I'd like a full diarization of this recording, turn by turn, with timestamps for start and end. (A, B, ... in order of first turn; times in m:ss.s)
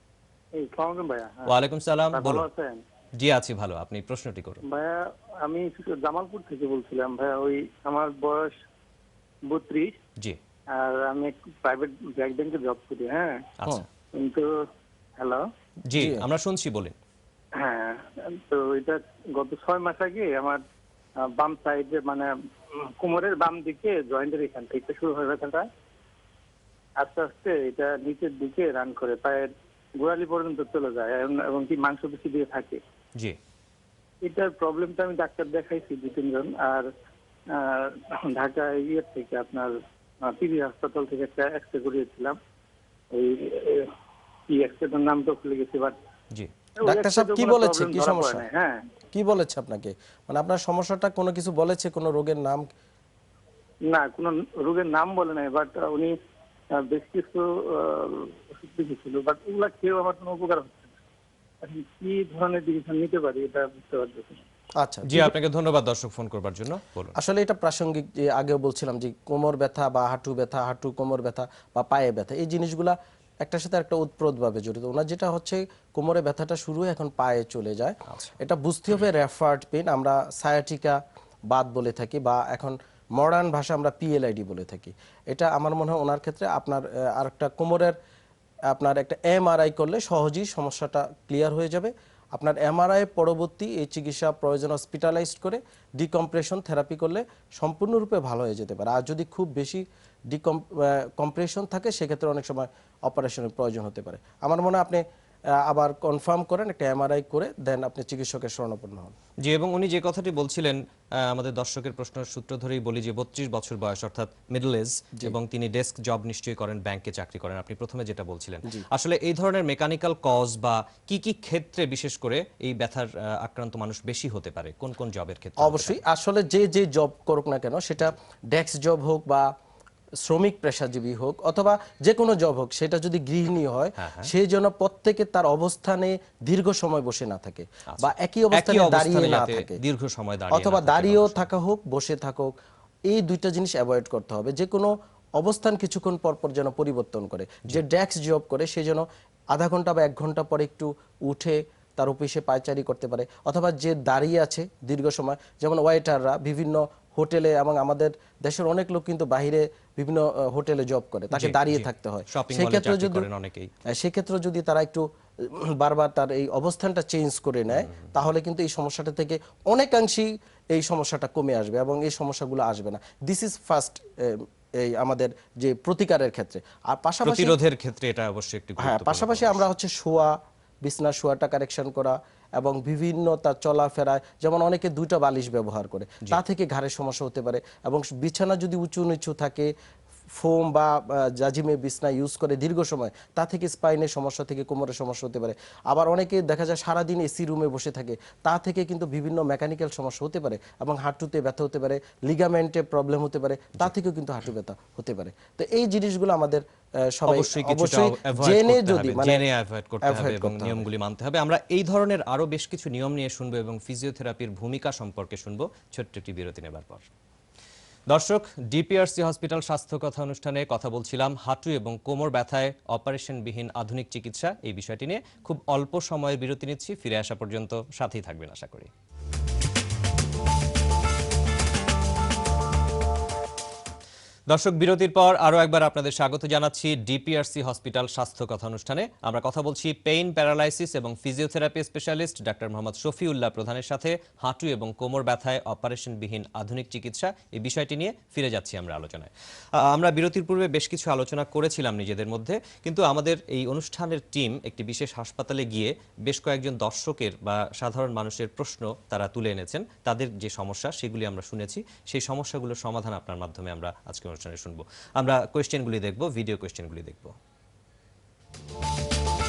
0:00.6-0:01.6 A
0:01.5-0:02.4 B
0:02.1-0:02.8 A
0:03.2-0:04.6 B
0:04.7-0:08.6 A
0:09.5-0:10.0 A
0:10.8-0:13.4 A
0:14.1-0:14.5 A
0:15.2-0:15.4 A
0:15.9-0:16.9 B
0:15.9-0:16.2 C
0:17.6-0:20.6 A
0:21.3-0:22.3 A
0:22.9-0:25.7 A
0:27.0-0:32.8 A
0:34.2-0:36.9 A
0:37.5-0:39.7 A
0:40.2-0:42.4 A
0:43.1-0:43.9 A
0:44.5-0:46.0 A
0:46.8-0:48.8 A
0:46.8-0:48.4 C
0:49.1-0:52.7 C
0:53.9-0:56.1 A
0:56.8-1:00.9 A
1:01.6-1:04.4 A
1:04.8-1:05.3 C
1:05.1-1:07.2 B
1:07.1-1:21.0 C
1:18.1-1:18.4 B
1:21.5-1:27.9 C
1:28.7-1:45.0 C
1:45.6-1:49.1 C
1:49.4-2:06.0 B
2:05.6-2:09.5 C
2:10.2-2:19.8 C
2:14.0-2:14.3 B
2:17.9-2:21.5 B
2:20.5-2:22.5 C
2:23.1-2:43.3 C
2:41.3-2:43.7 B
2:43.9-2:57.6 C
2:57.2-2:59.7 B
2:58.8-3:09.7 C
3:10.4-3:29.4 C
3:27.3-3:37.0 B
3:30.0-3:30.9 C
3:38.1-3:48.9 B
3:54.5-4:09.3 B
4:09.8-4:27.3 B